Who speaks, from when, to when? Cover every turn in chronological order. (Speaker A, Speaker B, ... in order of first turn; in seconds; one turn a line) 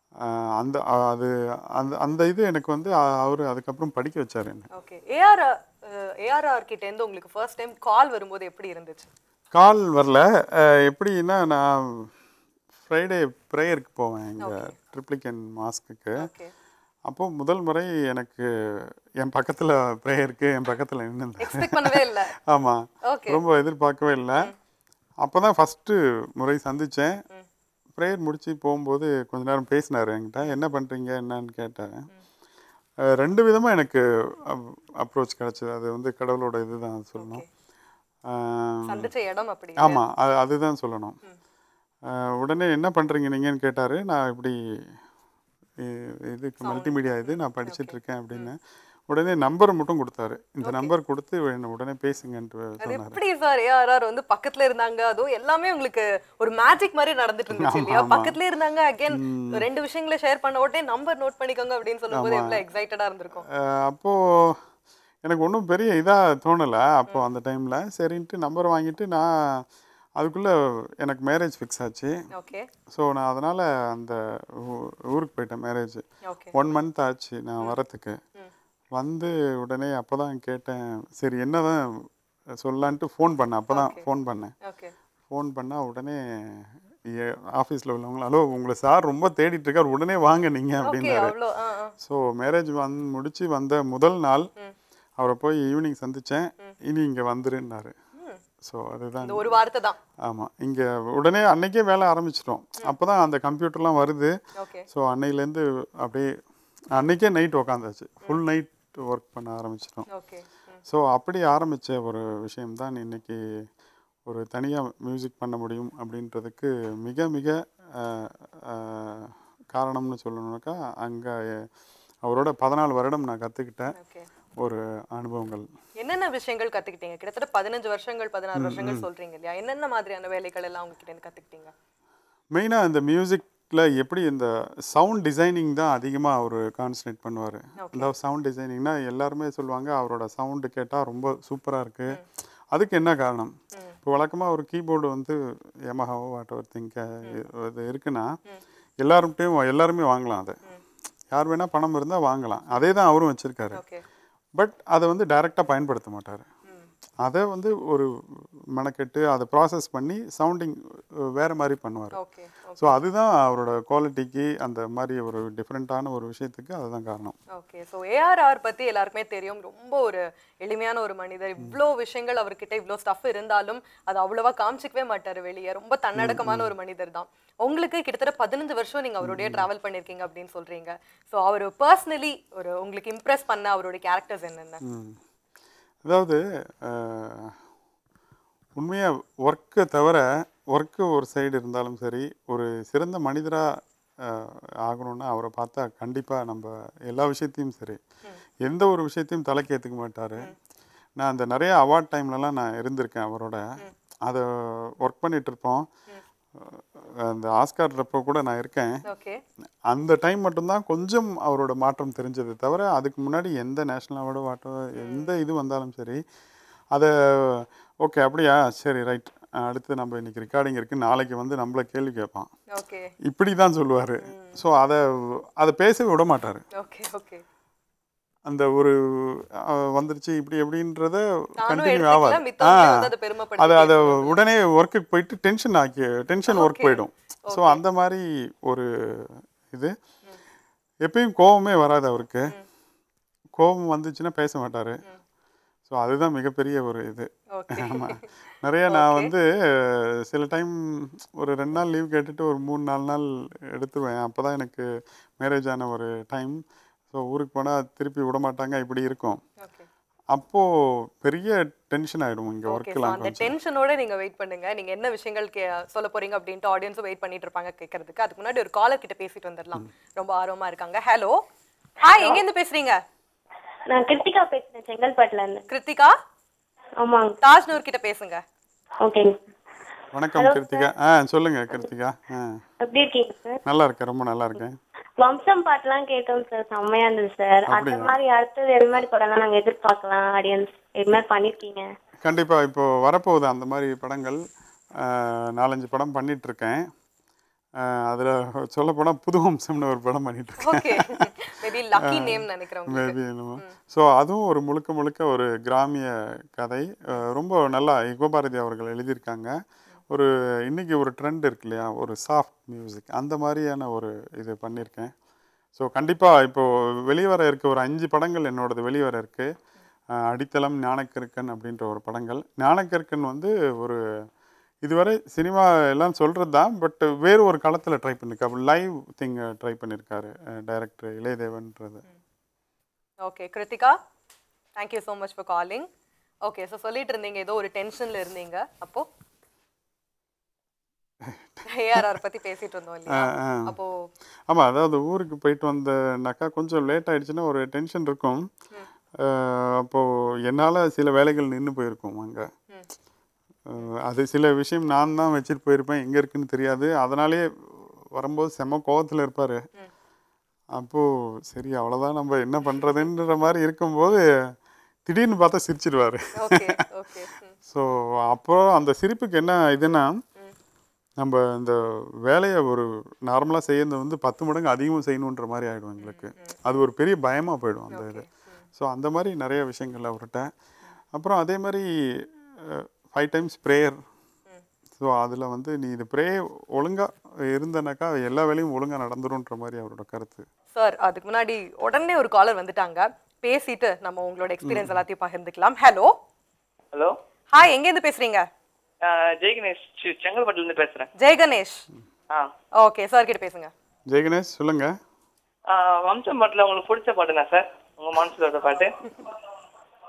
Speaker A: 0.2-4.7
Speaker B: 4.7-9.1
Speaker A: 9.5-12.1
Speaker A: 12.8-16.3
Speaker B: 14.4-14.7
Speaker B: 16.2-16.5
Speaker A: 17.1-24.5
Speaker B: 21.4-22.3
Speaker B: 23.1-23.4
Speaker A: 25.2-27.2
Speaker A: 28.0-32.1
Speaker A: 33.1-37.4
Speaker B: 37.2-37.5
Speaker A: 38.3-39.1
Speaker B: 38.9-40.0
Speaker A: 39.8-41.2
Speaker A: 42.1-44.6
Speaker A: 45.8-48.6
Speaker B: 46.6-48.5
Speaker A: 49.1-53.2
Speaker B: 50.6-50.9
Speaker B: 52.8-63.5
Speaker A: 57.5-58.4
Speaker A: 59.1-59.6
Speaker A: 62.1-62.6
Speaker A: 63.5-64.6
Speaker A: 65.2-69.7
Speaker A: 70.2-72.1
Speaker B: 72.3-72.7
Speaker A: 72.9-78.2
Speaker B: 76.2-76.5
Speaker A: 78.9-81.8
Speaker A: 82.6-84.5
Speaker B: 83.7-84.1
Speaker B: 84.7-84.9
Speaker A: 85.3-91.3
Speaker B: 90.8-91.9
Speaker A: 92.0-94.5
Speaker A: 95.2-97.9
Speaker B: 98.2-98.4
Speaker A: 98.6-99.6
Speaker B: 99.2-100.0
Speaker A: 100.2-104.3
Speaker B: 104.6-104.9
Speaker A: 104.9-106.3
Speaker A: 107.0-110.1
Speaker B: 110.1-110.8
Speaker A: 110.9-113.4
Speaker A: 114.3-121.7
Speaker A: 122.2-123.9
Speaker B: 124.0-124.3
Speaker A: 124.6-125.7
Speaker B: 126.0-131.7
Speaker A: 128.6-129.1
Speaker A: 132.5-142.2
Speaker B: 137.8-138.1
Speaker A: 142.7-148.3
Speaker A: 149.0-150.6
Speaker A: 151.3-153.8
Speaker B: 153.7-154.0
Speaker A: 154.6-156.5
Speaker A: 157.2-158.1
Speaker A: 158.7-162.2
Speaker B: 162.2-162.9
Speaker A: 162.8-167.4
Speaker B: 167.5-184.8
Speaker A: 176.2-176.7
Speaker A: 179.2-179.7
Speaker A: 184.8-185.2
Speaker A: 186.0-187.6
Speaker A: 188.8-193.7
Speaker A: 194.2-198.0
Speaker A: 198.6-200.5
Speaker A: 201.2-203.7
Speaker A: 204.2-205.9
Speaker A: 206.6-209.0
Speaker B: 209.1-209.4
Speaker A: 209.9-216.2
Speaker B: 215.0-215.3
Speaker A: 216.9-222.5
Speaker B: 222.7-223.1
Speaker A: 223.2-226.6
Speaker B: 224.2-224.6
Speaker B: 226.8-227.4
Speaker A: 228.5-239.9
Speaker B: 231.6-234.4
Speaker B: 236.5-237.8
Speaker A: 241.0-242.6
Speaker A: 243.6-245.0
Speaker A: 245.9-254.9
Speaker B: 247.5-248.3
Speaker B: 248.9-249.3
Speaker A: 255.4-259.4
Speaker B: 259.6-259.9
Speaker A: 260.3-263.6
Speaker B: 262.7-271.4
Speaker B: 272.0-273.0
Speaker C: 273.9-275.6
Speaker B: 275.7-276.1
Speaker C: 277.0-277.4
Speaker B: 277.4-278.4
Speaker C: 279.0-279.4
Speaker A: 280.1-282.6
Speaker C: 280.4-280.9
Speaker C: 282.8-283.6
Speaker A: 283.6-284.8
Speaker C: 285.2-291.9
Speaker A: 287.7-288.1
Speaker A: 292.2-294.4
Speaker A: 295.0-296.9
Speaker A: 297.8-301.2
Speaker B: 300.6-303.7
Speaker A: 302.0-309.5
Speaker A: 310.1-315.1
Speaker A: 315.8-319.5
Speaker A: 320.1-324.0
Speaker A: 324.8-332.0
Speaker B: 333.2-334.0
Speaker B: 334.8-335.9
Speaker B: 336.4-339.1
Speaker A: 341.2-342.1
Speaker B: 341.6-344.0
Speaker A: 343.1-343.8
Speaker A: 344.5-348.5
Speaker A: 349.2-352.5
Speaker A: 353.7-357.5
Speaker A: 358.1-359.6
Speaker A: 360.7-364.2
Speaker A: 365.1-366.8
Speaker B: 366.4-367.5
Speaker A: 367.7-370.2
Speaker A: 371.2-380.5
Speaker B: 376.0-376.6
Speaker B: 377.9-378.6
Speaker A: 381.1-384.0
Speaker A: 385.0-390.4
Speaker B: 390.8-396.1
Speaker A: 394.6-395.0
Speaker B: 397.5-398.5
Speaker D: 399.0-401.1
Speaker B: 401.2-401.9
Speaker B: 402.8-403.7
Speaker A: 404.1-405.0
Speaker D: 405.7-408.9